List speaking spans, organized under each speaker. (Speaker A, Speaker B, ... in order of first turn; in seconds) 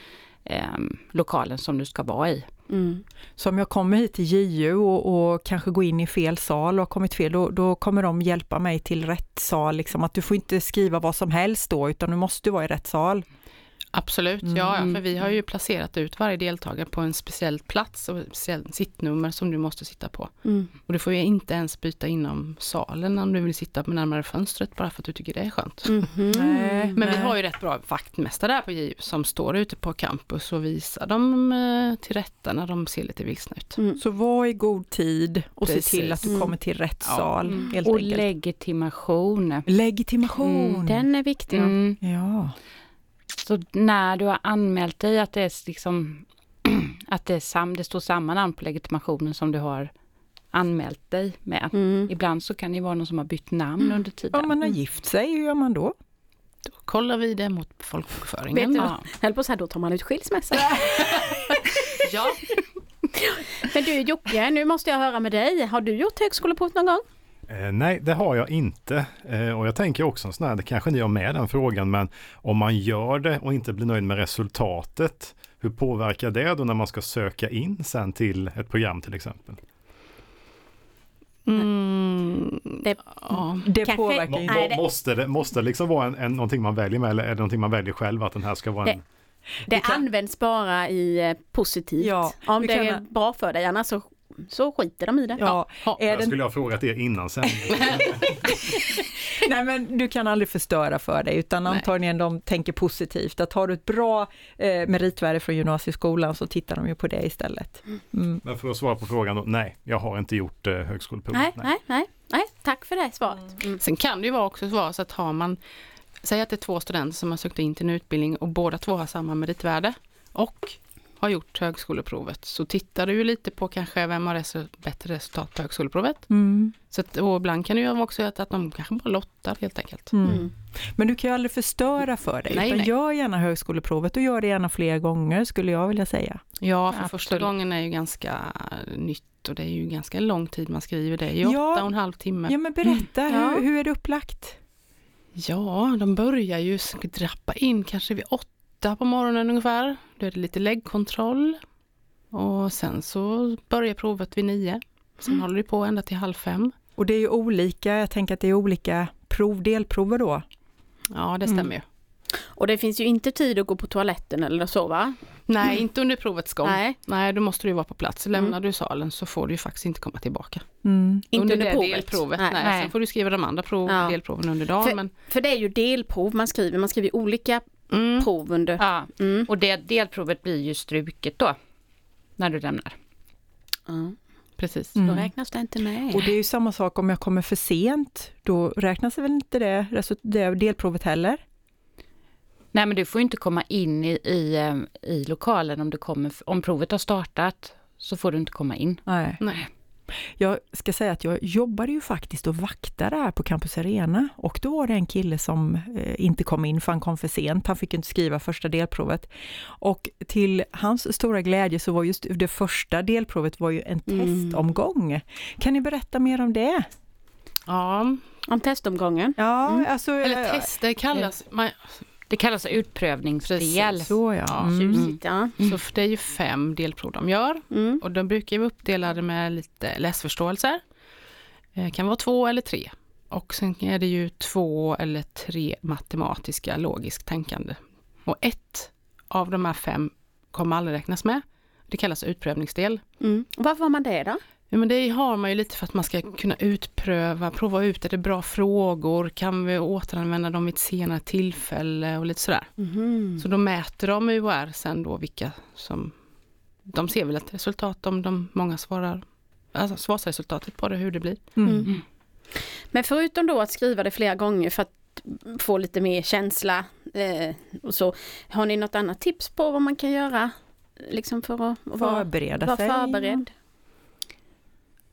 Speaker A: 0.4-2.5, 37.8-39.6, 40.4-40.9, 41.5-42.0, 43.4-49.9, 50.5-54.5, 136.9-137.5, 172.6-172.9, 178.8-181.6, 182.4-182.9, 192.7-199.0, 222.3-224.1, 224.9-225.8
Speaker B: 2.7-3.0, 20.4-20.7, 25.8-27.0, 36.2-36.5, 40.9-41.8, 51.7-52.1, 58.5-61.9, 63.2-67.0, 82.8-84.8, 89.7-95.5, 111.3-113.8, 130.2-130.5, 143.3-143.6, 162.5-165.2, 166.6-166.9, 171.3-172.6, 173.8-174.2, 174.8-177.7, 178.2-179.5, 183.9-184.2, 185.0-186.3, 214.1-214.6, 218.4-219.4, 224.6-225.5, 227.7-228.0, 243.2-244.4, 252.8-253.4, 261.6-261.9, 262.9-273.5
Speaker C: 3.4-13.2, 14.4-14.8, 26.3-27.4, 34.0-38.2, 39.6-41.0, 42.0-42.5, 54.3-55.9, 83.6-84.7, 89.7-90.0, 92.0-93.0, 95.4-96.3, 99.3-108.4, 126.3-126.7, 130.1-136.4, 141.4-141.9, 142.4-144.6, 157.0-160.4, 170.8-171.2, 184.9-185.3, 186.1-191.4, 199.1-199.4, 200.4-216.8, 219.4-220.7, 224.0-225.0, 261.6-261.9, 272.0-273.4
Speaker D: 13.9-26.1, 26.9-33.8, 35.6-36.5, 37.0-37.6, 56.6-58.9, 62.0-62.6, 81.5-83.7, 95.4-96.0, 113.8-115.6, 116.2-126.3, 126.9-130.2, 132.5-132.9, 136.6-142.5, 145.3-151.6, 152.3-156.7, 161.1-161.8, 165.5-170.6, 171.3-175.1, 177.9-178.3, 184.6-185.1, 217.7-218.2, 220.2-221.9, 223.4-224.7, 225.6-230.8, 231.7-243.0, 244.7-252.7, 253.4-256.1, 256.9-261.5
Speaker E: 67.5-79.6, 84.2-89.0, 96.0-98.6, 108.4-111.7